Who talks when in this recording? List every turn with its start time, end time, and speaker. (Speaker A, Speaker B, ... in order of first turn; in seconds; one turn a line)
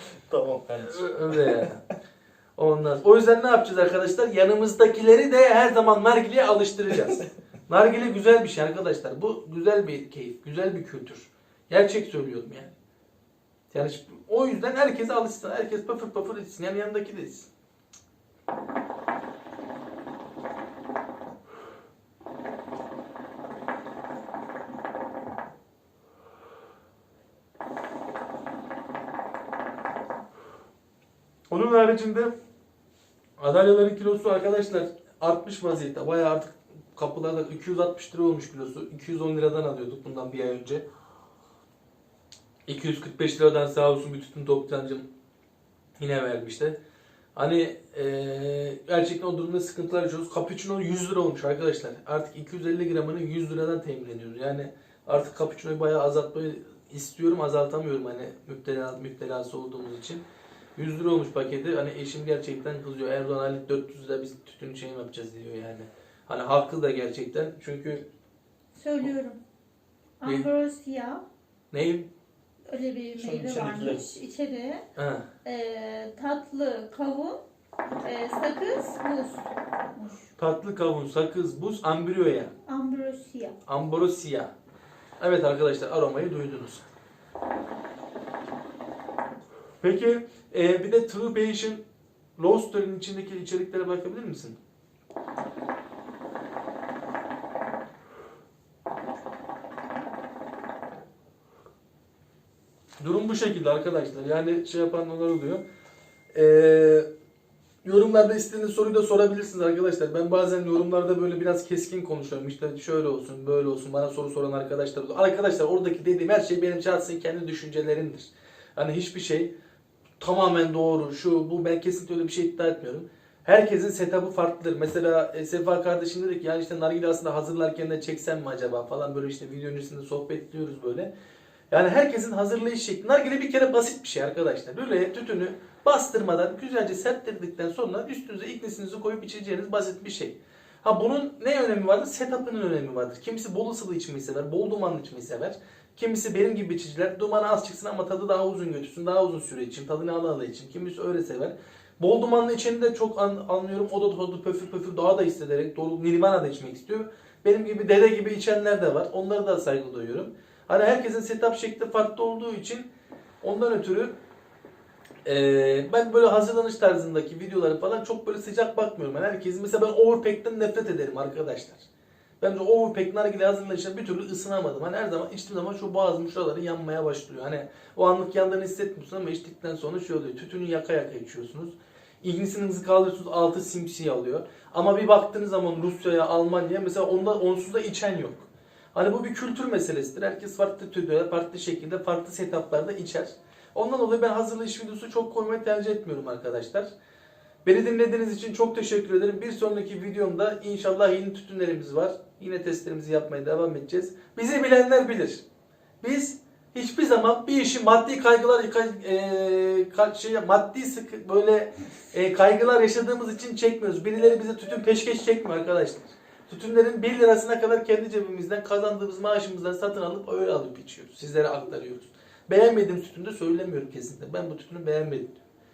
Speaker A: 0.3-1.7
Speaker B: 0.9-1.8
Speaker B: 2.6-12.7
Speaker B: 13.7-17.5
Speaker B: 31.5-32.3
Speaker B: 33.4-40.8
Speaker B: 42.7-45.0
Speaker B: 46.0-46.8
Speaker B: 47.4-60.2
Speaker B: 60.8-68.0
Speaker C: 68.8-69.4
Speaker C: 70.2-71.2
Speaker B: 71.7-72.1
Speaker C: 72.7-74.8
Speaker A: 73.2-74.1
Speaker B: 75.0-75.2
Speaker C: 75.4-77.4
Speaker C: 78.0-80.2
Speaker B: 80.4-82.5
Speaker C: 82.7-83.5
Speaker B: 83.7-84.5
Speaker B: 85.2-86.8
Speaker B: 89.8-91.8
Speaker B: 92.4-94.6
Speaker B: 103.0-105.6
Speaker B: 106.3-107.0
Speaker B: 107.8-119.5
Speaker B: 120.2-131.1
Speaker B: 131.7-162.9
Speaker B: 163.4-164.1
Speaker B: 165.2-171.8
Speaker B: 172.4-196.9
Speaker B: 197.6-205.4
Speaker B: 206.0-225.3